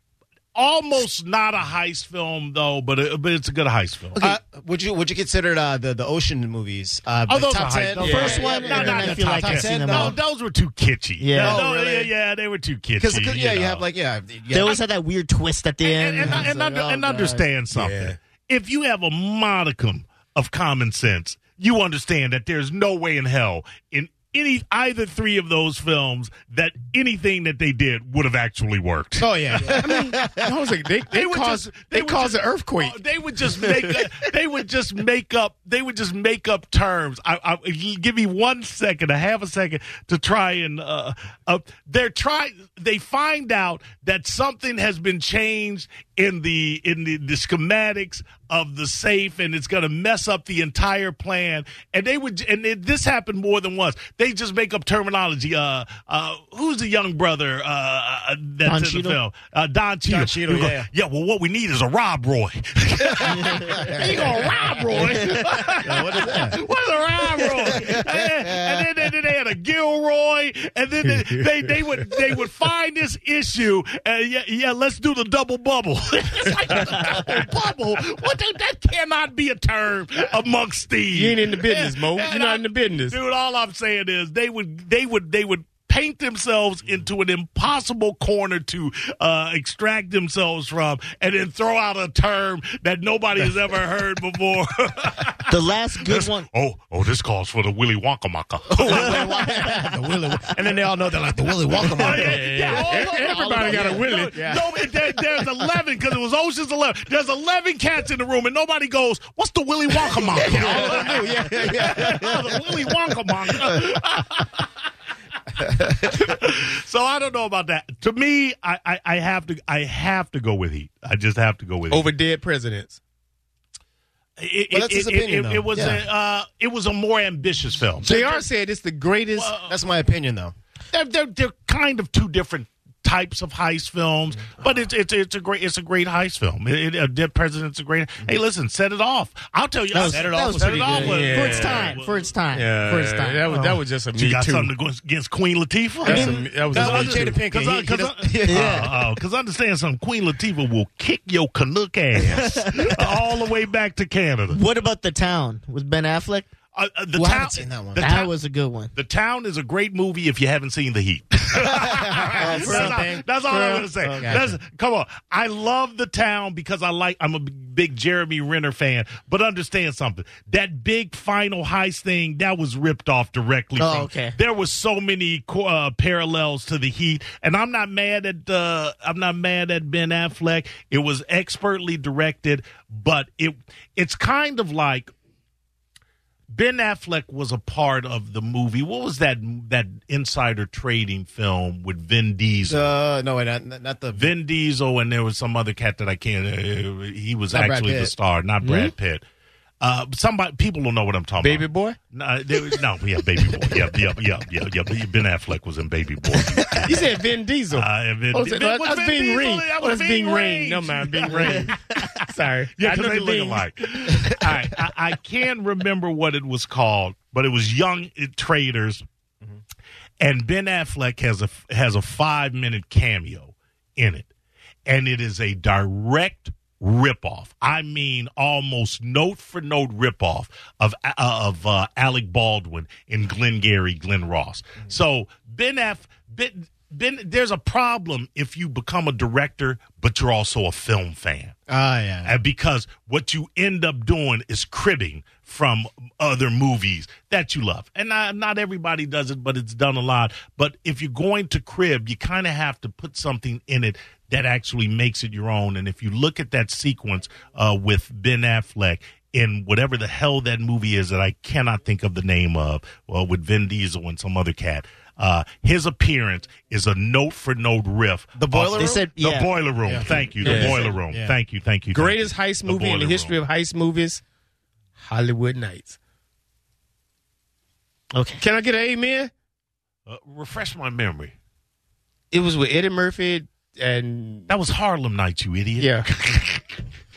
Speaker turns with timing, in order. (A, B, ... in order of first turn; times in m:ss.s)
0:00.5-0:04.2 A
0:04.2-0:10.2 B
0:07.3-0:13.8 A
0:08.0-0:08.5 C
0:08.0-0:10.2 D
0:11.2-0:11.6 D
0:11.4-0:12.1 B
0:13.0-0:14.8 B
0:14.5-0:17.5 D
0:15.8-0:29.8 A
0:17.7-0:18.2 C
0:29.2-0:30.4 B
0:29.7-0:33.0 C
0:31.1-1:39.8 A
0:58.6-0:59.2 D
1:00.0-1:00.9 B
1:03.0-1:06.6 B
1:03.4-1:03.7 D
1:04.0-1:05.2 C
1:07.4-1:08.9 B
1:11.0-1:11.7 C
1:16.7-1:17.2 C
1:21.1-1:23.2 C
1:35.5-1:36.4 D
1:38.7-1:45.4 B
1:39.1-1:39.7 D
1:41.7-1:54.7 A
1:42.0-1:44.4 C
1:50.2-1:54.2 B
1:55.6-1:56.4 B
1:56.0-2:02.1 A
2:01.9-2:03.0 C
2:04.4-2:08.4 A
2:04.7-2:06.0 B
2:08.0-2:09.5 C
2:09.4-2:09.7 A
2:09.5-2:10.5 B
2:10.9-2:22.2 A
2:19.9-2:23.4 D
2:20.0-2:21.3 B
2:20.8-2:22.0 C
2:22.5-2:24.7 C
2:23.5-2:34.6 A
2:26.0-2:27.4 C
2:26.0-2:29.2 B
2:28.4-2:28.9 D
2:32.2-2:33.1 D
2:34.5-2:36.5 D
2:36.7-2:38.3 A
2:37.1-2:38.0 B
2:38.0-2:38.9 D
2:38.9-3:05.1 A
2:41.5-2:44.6 B
2:42.4-2:44.4 D
2:53.8-2:54.4 D
3:06.5-3:12.9 A
3:12.7-3:14.3 B
3:14.2-3:19.2 A
3:17.5-3:18.1 B
3:18.6-3:18.9 C
3:19.8-3:27.2 A
3:21.4-3:22.0 C
3:26.8-3:34.8 C
3:27.7-3:39.0 A
3:40.2-3:44.3 A
3:44.8-4:01.5 A
4:01.7-4:02.3 B
4:02.2-4:33.4 A
4:28.4-4:29.0 B
4:28.5-4:29.5 D
4:29.8-4:31.4 B
4:30.4-4:30.9 C
4:31.9-4:34.2 C
4:35.0-4:36.0 C
4:38.1-4:38.4 D
4:38.4-4:39.3 C
4:40.1-4:41.3 A
4:42.3-4:44.5 C
4:44.5-4:46.8 A
4:45.8-4:46.0 C